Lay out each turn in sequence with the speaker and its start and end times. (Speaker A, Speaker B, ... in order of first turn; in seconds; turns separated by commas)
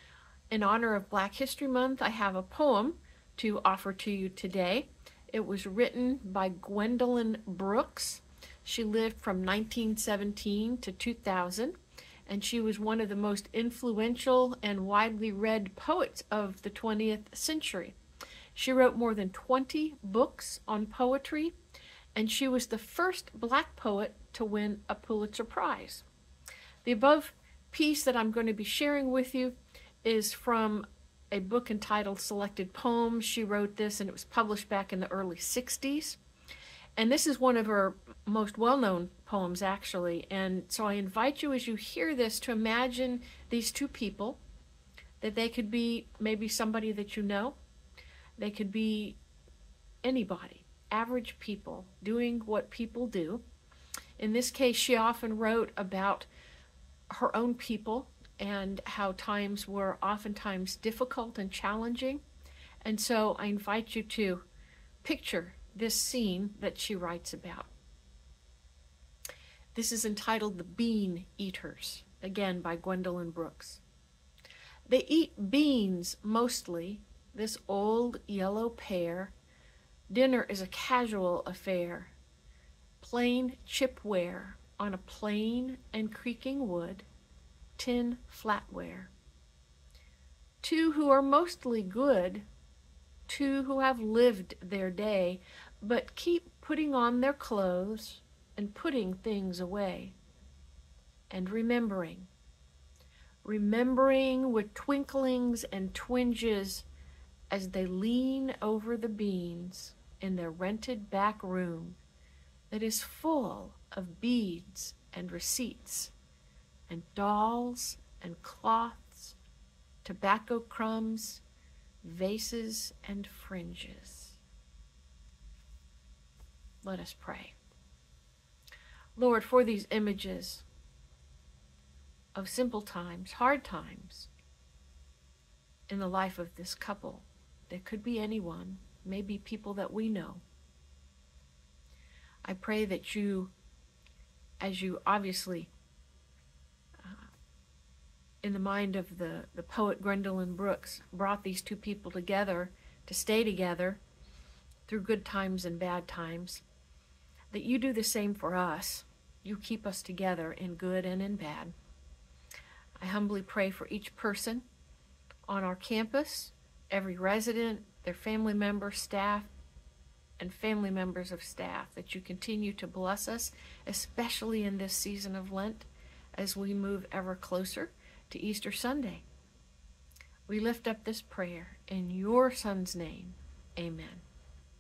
Speaker A: 0.5-11.8, Speaker A: 12.3-17.9, Speaker A: 18.6-21.5, Speaker A: 22.1-26.1, Speaker A: 26.9-36.2, Speaker A: 37.0-44.4, Speaker A: 45.2-47.6, Speaker A: 48.4-49.2, Speaker A: 50.0-53.4, Speaker A: 54.2-56.3, Speaker A: 57.1-62.2, Speaker A: 62.8-64.5, Speaker A: 65.0-67.7, Speaker A: 69.7-73.8, Speaker A: 74.9-79.3, Speaker A: 80.1-82.2, Speaker A: 83.0-87.1, Speaker A: 87.8-89.1, Speaker A: 90.6-92.5, Speaker A: 93.3-100.2, Speaker A: 101.3-102.3, Speaker A: 103.4-106.9, Speaker A: 107.5-112.0, Speaker A: 112.7-116.1, Speaker A: 116.9-119.4, Speaker A: 120.0-121.4, Speaker A: 122.0-124.4, Speaker A: 126.8-127.5, Speaker A: 129.2-130.7, Speaker A: 132.3-134.3, Speaker A: 135.9-140.4, Speaker A: 142.4-143.5, Speaker A: 144.6-145.7, Speaker A: 148.4-154.0, Speaker A: 154.9-156.6, Speaker A: 157.5-161.7, Speaker A: 163.0-164.7, Speaker A: 165.5-169.5, Speaker A: 170.4-179.2, Speaker A: 180.5-184.2